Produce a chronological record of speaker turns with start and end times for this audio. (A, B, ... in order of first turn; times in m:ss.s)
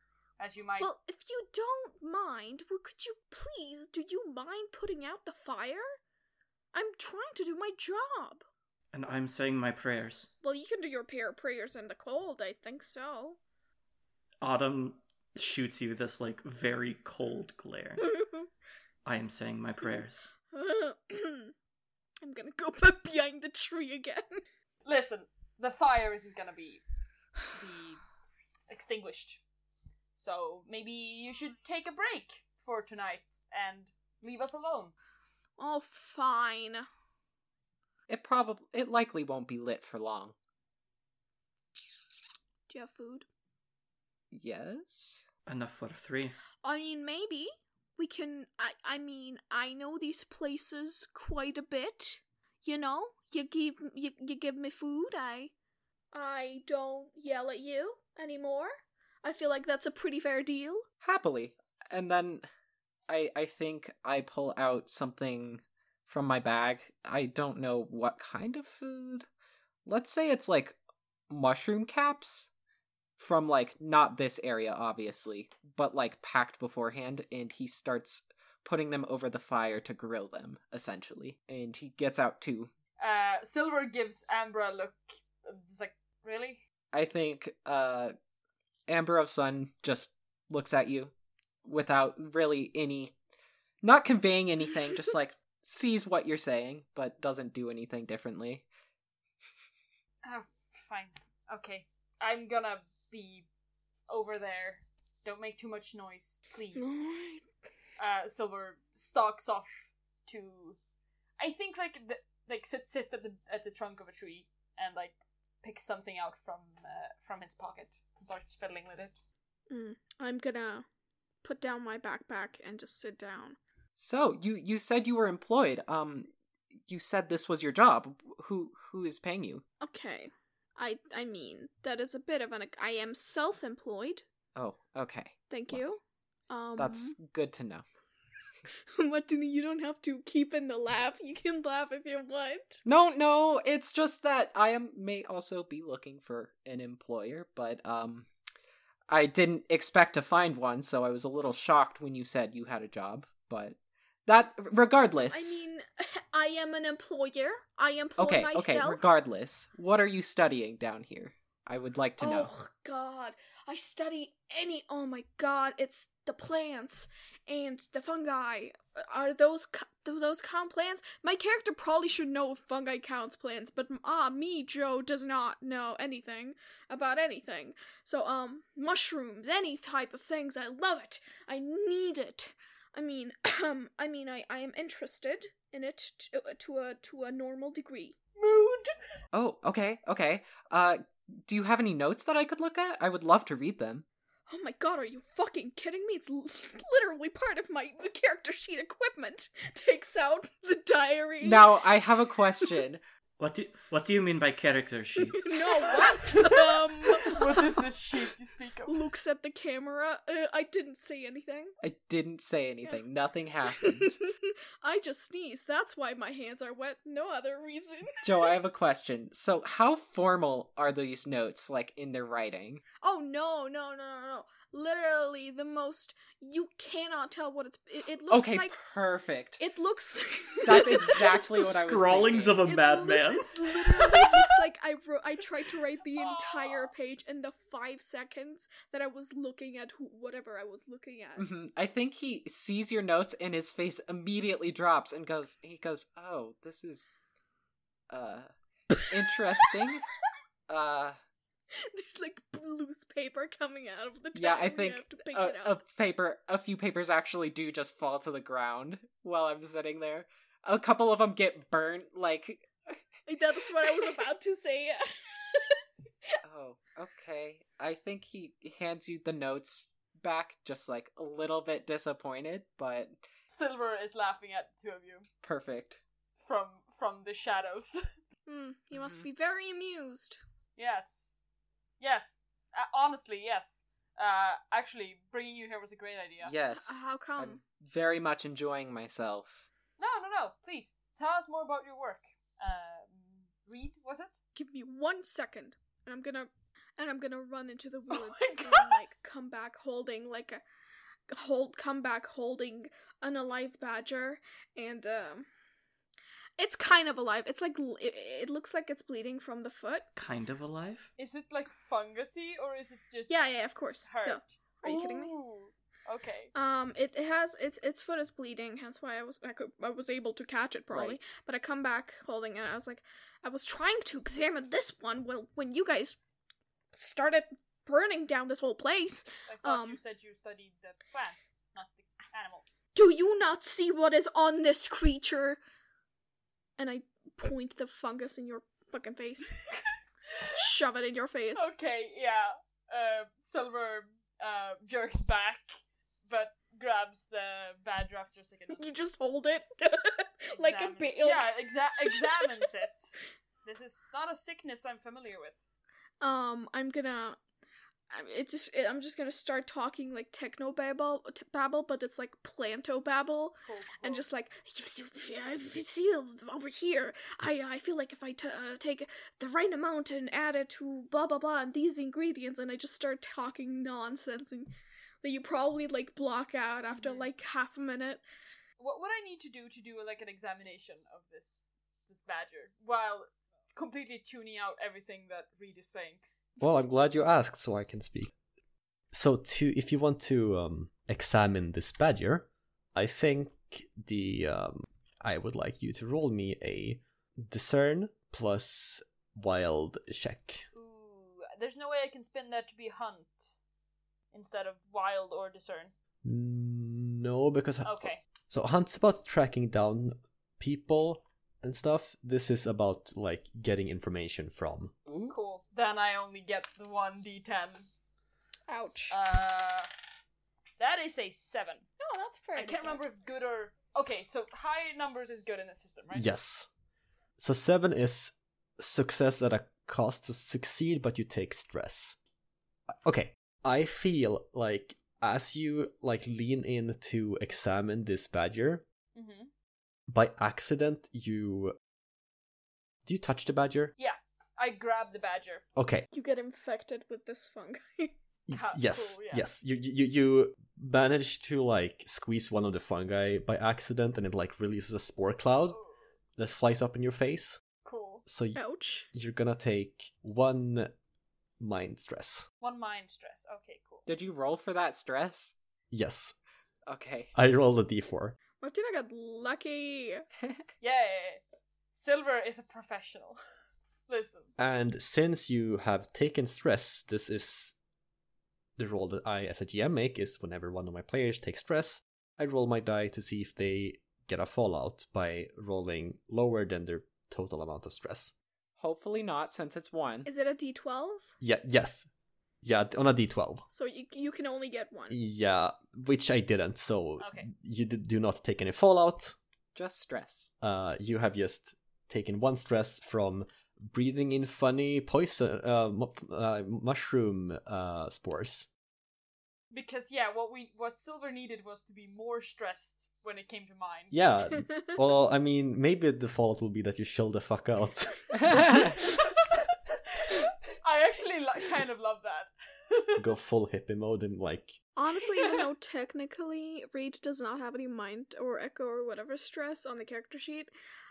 0:00.4-0:00.9 A
0:00.8-0:05.9 B
0:06.7-0:08.4 B
0:08.9-0:10.3 C
0:10.4-0:13.4 B
0:14.4-0:18.1 C
0:18.0-0:18.5 B
0:19.0-0:20.3 C
0:20.5-0:21.5 B
0:22.2-0:24.4 B
0:24.8-0:26.8 A
0:27.5-0:28.0 A
0:28.7-0:29.4 A
0:30.2-0:34.9 A
0:35.6-0:36.9 B
0:38.1-0:40.4 D
0:42.7-0:43.3 B
0:44.3-0:45.3 D
0:45.5-0:46.4 C
0:46.6-0:55.5 B
0:56.1-1:00.9 B
1:01.0-1:02.5 D
1:03.1-1:09.3 D
1:09.9-1:10.8 D
1:11.3-1:12.5 D
1:13.2-1:22.7 D
1:23.0-1:26.6 A
1:26.9-1:28.1 D
1:28.9-1:31.1 D
1:31.6-1:33.2 D
1:33.8-1:38.7 D
1:40.2-1:43.5 A
1:44.1-1:47.1 A
1:46.8-1:47.4 B
1:48.0-1:50.8 A
1:51.4-1:59.2 A
1:59.7-2:00.8 B
2:01.4-2:03.6 B
2:04.0-2:06.3 D
2:06.9-2:09.6 D
2:09.8-2:14.2 B
2:14.6-2:15.8 D
2:15.5-2:17.2 B
2:16.8-2:17.8 D
2:19.0-2:22.8 B
2:22.8-2:28.3 D
2:29.1-2:35.6 D
2:35.3-2:39.0 B
2:38.2-2:42.5 D
2:42.2-3:08.2 B
3:08.4-3:09.0 A
3:09.3-3:14.0 D
3:14.5-3:21.8 B
3:21.4-3:23.0 D
3:23.4-3:25.8 C
3:25.2-3:27.7 B
3:26.4-3:29.0 A
3:28.9-3:31.8 B
3:31.8-3:34.1 D
3:33.9-3:38.5 B
3:38.2-3:42.8 D
3:43.0-3:48.8 B
3:48.3-3:49.6 D
3:49.6-3:51.8 B
3:50.6-3:52.6 D
3:51.8-3:53.6 C
3:52.7-4:01.5 B
3:56.2-3:56.9 A
4:01.4-4:07.1 D
4:08.1-4:08.5 D
4:09.0-4:10.0 D
4:10.7-4:11.2 D
4:11.7-4:15.8 B
4:14.4-4:23.0 D
4:23.3-4:26.4 B
4:26.4-4:33.2 D
4:33.5-4:35.3 A
4:35.4-4:36.0 D
4:36.4-4:38.0 A
4:38.5-4:40.4 B
4:39.0-4:39.3 D
4:40.8-4:41.3 A
4:42.0-4:46.5 A
4:46.4-4:49.7 D
4:46.8-4:47.6 B
4:50.0-4:54.3 A
4:54.6-5:00.6 B
4:58.1-4:59.0 A
5:01.3-5:05.5 B
5:06.6-5:10.1 B
5:10.2-5:11.1 C
5:11.2-5:13.4 A
5:13.3-5:15.3 B
5:14.0-5:16.5 A
5:16.5-5:26.2 B
5:20.9-5:21.2 D
5:26.9-5:30.0 B
5:29.5-5:32.8 A
5:33.0-5:35.6 B
5:36.8-5:39.6 B
5:40.6-5:41.7 B
5:41.6-5:45.8 A
5:46.3-5:48.9 A
5:48.8-5:51.5 B
5:50.5-5:55.6 A
5:56.2-5:57.4 B
5:58.1-6:14.7 B
6:03.6-6:04.2 A
6:15.2-6:18.2 B
6:16.9-6:17.3 A
6:18.8-6:26.2 A
6:26.6-6:28.3 E
6:29.1-6:40.6 E
6:40.7-6:43.6 A
6:44.3-6:45.9 A
6:46.2-6:54.9 E
6:47.8-6:48.2 A
6:55.1-6:55.4 D
6:55.3-6:57.9 A
6:58.7-6:59.1 B
6:59.1-6:59.9 A
7:00.8-7:01.9 A
7:02.0-7:03.0 B
7:02.6-7:06.3 A
7:06.1-7:06.7 E
7:07.4-7:12.2 E
7:13.0-7:18.8 E
7:19.2-7:19.5 A
7:20.1-7:21.8 E
7:23.0-7:23.9 E
7:24.0-7:25.6 A
7:25.8-7:26.1 E
7:26.1-7:28.1 B
7:28.5-7:35.8 E
7:28.5-7:29.5 A
7:36.4-7:37.6 E
7:37.8-7:38.2 A
7:38.3-7:38.6 E
7:38.6-7:39.1 B
7:39.1-7:40.9 E
7:41.6-7:42.5 E
7:42.6-7:44.1 A
7:44.1-7:45.6 D
7:45.9-7:46.4 E
7:46.9-7:47.3 D
7:47.4-7:48.4 E
7:48.6-7:50.2 B
7:50.8-7:51.4 A
7:51.9-7:53.4 A
7:54.1-7:54.5 A
7:54.6-7:57.8 E
7:58.8-8:08.3 E
8:08.8-8:10.3 D
8:10.3-8:11.3 B
8:11.4-8:12.1 E
8:12.6-8:13.6 E
8:13.7-8:15.2 B
8:15.1-8:19.4 E
8:17.2-8:17.5 A
8:19.8-8:20.5 D
8:20.6-8:28.7 E
8:29.7-8:34.1 A
8:34.1-8:39.0 E
8:34.5-8:34.9 B
8:38.3-8:39.0 D
8:40.2-8:43.2 A
8:43.2-8:44.8 E
8:45.0-8:50.7 B